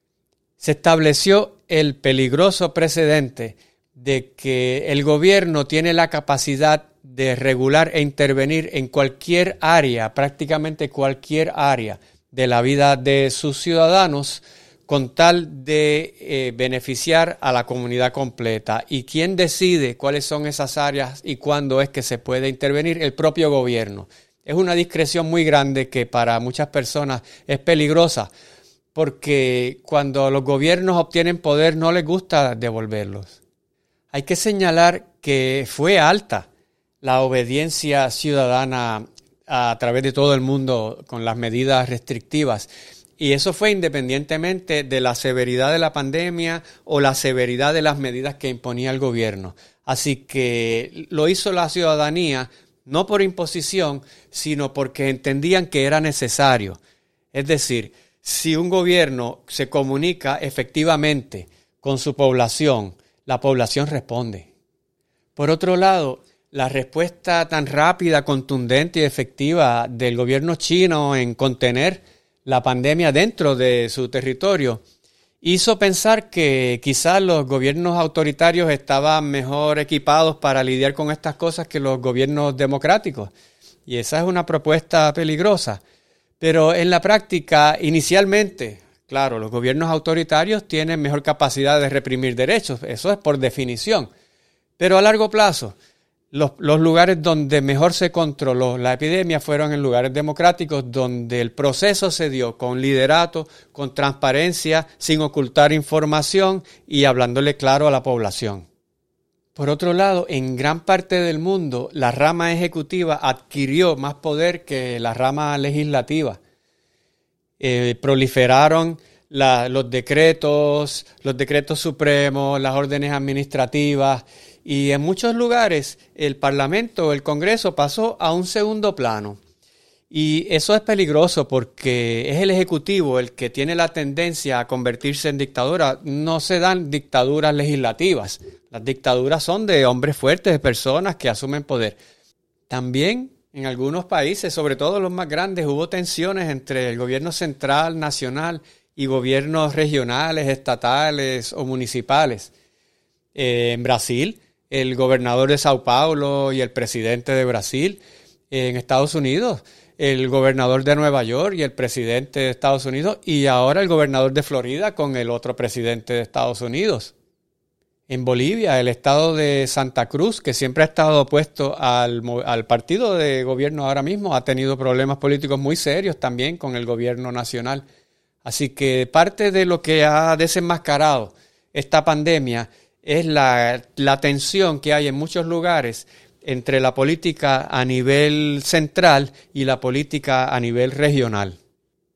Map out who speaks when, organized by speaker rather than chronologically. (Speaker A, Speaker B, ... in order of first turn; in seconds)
Speaker A: 0.6-28.3, 28.9-33.4, 34.1-36.5, 37.0-56.8, 57.3-64.5, 65.4-74.8, 75.4-83.3, 83.9-85.8, 86.4-94.1, 94.8-95.8, 96.3-108.7, 109.5-116.4, 117.6-129.4, 130.1-142.0, 142.7-152.5, 153.3-167.1, 168.1-177.8, 178.4-191.6